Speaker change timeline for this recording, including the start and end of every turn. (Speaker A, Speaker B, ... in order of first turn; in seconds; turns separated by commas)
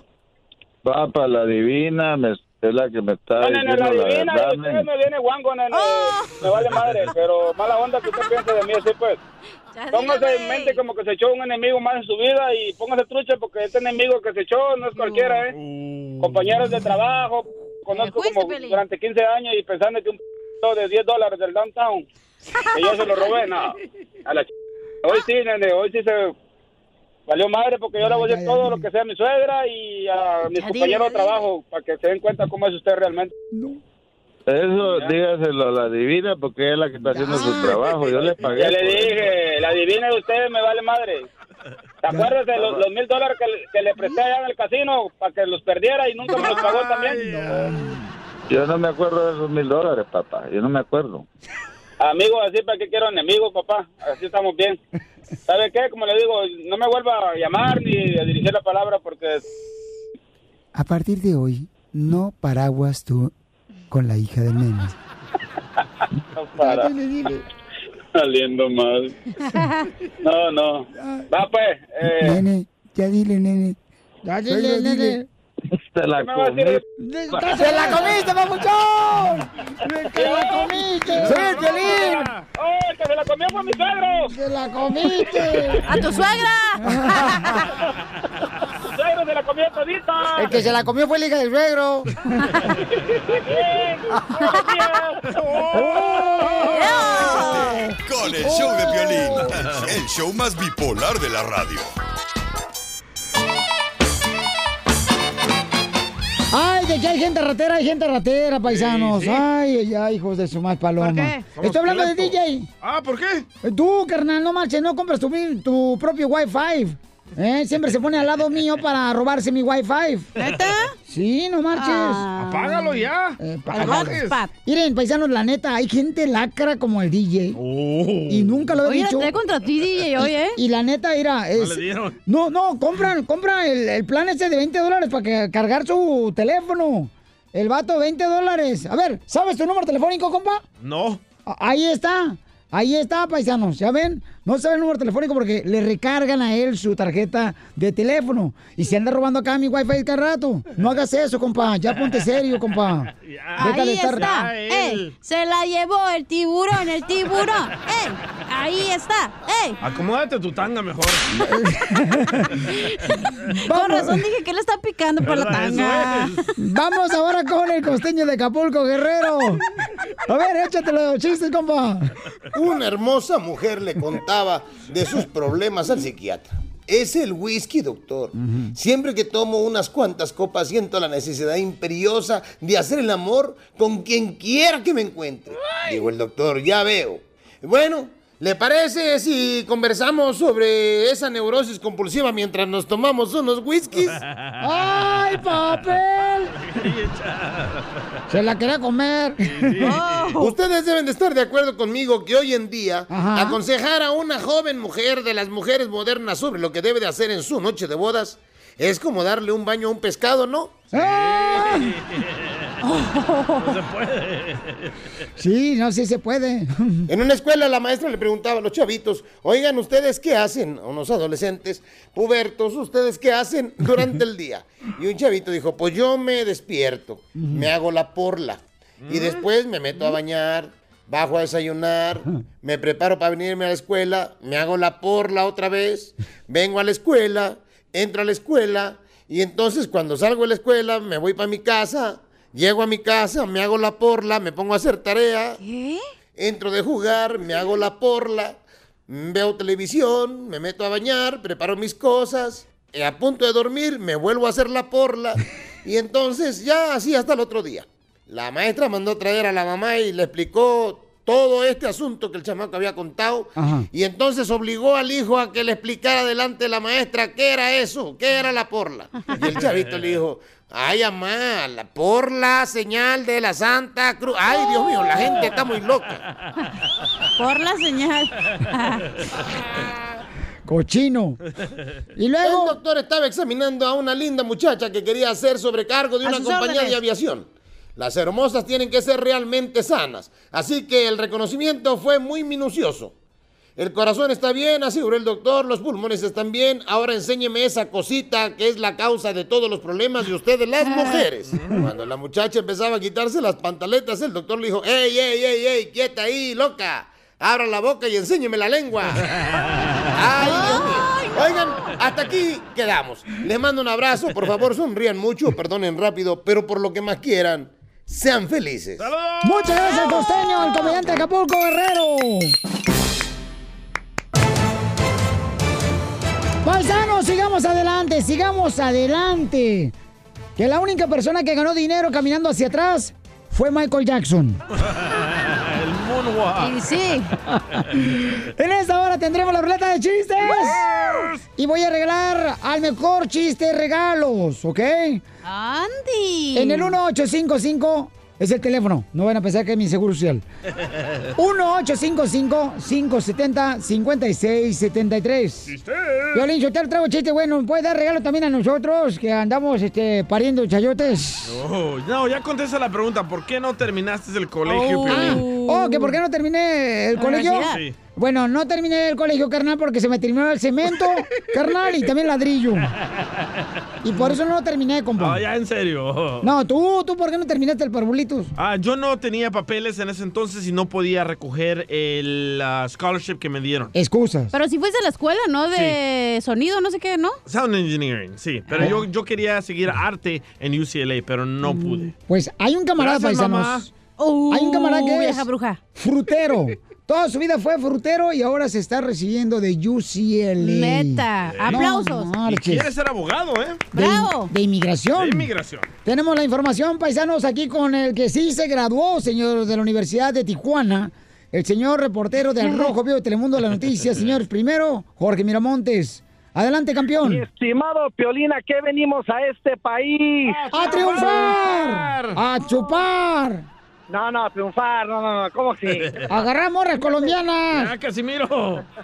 Speaker A: 0.8-4.8, Speaker B: 3.4-9.2, Speaker C: 5.7-6.4, Speaker D: 6.5-7.1, Speaker C: 9.7-10.8, Speaker B: 9.9-15.5, Speaker C: 15.0-15.4, Speaker D: 15.5-16.7, Speaker B: 16.2-22.0, Speaker C: 17.9-18.8, Speaker C: 22.6-23.2, Speaker B: 22.7-23.7, Speaker B: 25.1-26.3, Speaker B: 27.3-33.3, Speaker E: 28.0-28.9, Speaker C: 30.5-31.4, Speaker E: 33.5-33.8, Speaker A: 34.5-39.3, Speaker E: 37.1-37.8, Speaker B: 38.6-41.2, Speaker B: 42.0-47.3, Speaker A: 42.5-42.8, Speaker D: 46.3-48.0, Speaker E: 47.2-48.0, Speaker A: 48.5-51.2, Speaker B: 52.0-54.8, Speaker B: 55.5-59.4, Speaker E: 60.7-63.3, Speaker E: 63.9-64.9, Speaker B: 66.4-66.9, Speaker E: 66.6-67.4, Speaker B: 68.2-69.1, Speaker C: 69.5-69.7, Speaker B: 70.2-72.4, Speaker E: 71.0-71.2, Speaker E: 72.2-75.2, Speaker A: 75.7-78.0, Speaker B: 76.2-76.8, Speaker E: 77.0-82.3, Speaker B: 80.2-80.7, Speaker D: 81.2-82.4, Speaker B: 81.9-84.3, Speaker E: 84.3-85.9, Speaker C: 85.8-87.7, Speaker E: 86.8-87.5, Speaker B: 88.9-90.5, Speaker E: 90.4-92.1, Speaker B: 93.3-95.0, Speaker C: 94.4-94.7, Speaker D: 95.4-97.4, Speaker E: 95.7-97.8, Speaker C: 96.6-97.8, Speaker F: 98.0-101.9, Speaker E: 98.4-99.5, Speaker E: 106.5-112.7, Speaker D: 108.7-109.5, Speaker C: 111.0-111.5, Speaker D: 111.5-113.5, Speaker E: 113.6-120.3, Speaker C: 120.4-120.9, Speaker E: 121.1-122.2, Speaker C: 121.7-123.1, Speaker D: 122.3-124.4, Speaker E: 123.4-127.6, Speaker C: 123.7-124.5, Speaker D: 127.5-128.7, Speaker E: 128.3-129.3, Speaker C: 128.8-130.6, Speaker E: 130.2-140.6, Speaker D: 131.5-132.2, Speaker D: 140.8-141.2, Speaker E: 141.4-154.2, Speaker D: 152.0-152.2, Speaker D: 153.2-155.1, Speaker C: 153.6-159.8, Speaker D: 157.3-157.5, Speaker D: 159.8-161.3, Speaker E: 161.4-162.5, Speaker C: 162.7-166.5, Speaker E: 163.7-164.2, Speaker D: 165.2-166.4, Speaker E: 166.6-169.6, Speaker E: 170.3-172.1, Speaker G: 172.5-194.2, Speaker E: 178.3-178.7, Speaker D: 194.2-195.6, Speaker E: 194.6-196.6, Speaker D: 196.6-198.0, Speaker E: 198.3-199.9, Speaker D: 199.4-200.4, Speaker C: 199.8-200.5, Speaker G: 200.4-210.8, Speaker E: 203.1-203.6, Speaker E: 210.9-211.9, Speaker D: 210.9-212.7, Speaker C: 212.9-213.6, Speaker D: 213.6-214.9, Speaker E: 215.4-217.1, Speaker G: 217.1-245.6, Speaker E: 227.3-227.7, Speaker D: 229.0-229.4, Speaker C: 245.6-246.0, Speaker G: 246.3-276.2, Speaker E: 263.6-263.9, Speaker C: 274.6-275.4, Speaker C: 277.4-279.0, Speaker E: 280.6-281.4, Speaker E: 282.1-282.8, Speaker G: 282.4-293.1, Speaker C: 286.2-287.0, Speaker G: 293.8-309.2, Speaker C: 300.8-301.2, Speaker G: 310.1-319.1, Speaker C: 310.4-311.9, Speaker D: 319.0-319.8, Speaker E: 319.4-322.5, Speaker E: 326.6-329.9, Speaker E: 330.6-334.6, Speaker D: 334.8-336.8, Speaker C: 336.6-337.3, Speaker E: 338.0-340.8, Speaker D: 340.8-341.4, Speaker E: 341.6-345.2, Speaker C: 345.4-347.0, Speaker E: 346.5-350.4, Speaker E: 351.4-355.7, Speaker D: 355.7-356.4, Speaker E: 356.3-361.6, Speaker D: 361.4-365.4, Speaker C: 364.7-365.9, Speaker E: 365.1-372.9, Speaker C: 367.1-367.8, Speaker D: 367.7-367.9, Speaker E: 374.0-375.4, Speaker D: 375.2-376.5, Speaker E: 376.4-378.5, Speaker D: 378.6-383.9, Speaker E: 383.9-384.5, Speaker C: 384.5-387.4, Speaker D: 385.7-386.0, Speaker D: 387.4-392.1, Speaker C: 391.7-392.1, Speaker E: 392.3-393.9, Speaker D: 393.0-393.9, Speaker C: 394.2-395.8, Speaker E: 394.5-402.9, Speaker C: 400.6-402.3, Speaker D: 401.4-401.9, Speaker D: 402.4-403.9, Speaker C: 403.9-404.5, Speaker E: 403.9-405.5, Speaker D: 405.1-405.9, Speaker E: 406.0-417.4, Speaker H: 417.2-421.2, Speaker D: 420.5-422.4, Speaker E: 420.7-423.7, Speaker H: 424.1-426.1, Speaker D: 425.9-426.2, Speaker E: 426.3-427.9, Speaker D: 427.7-428.8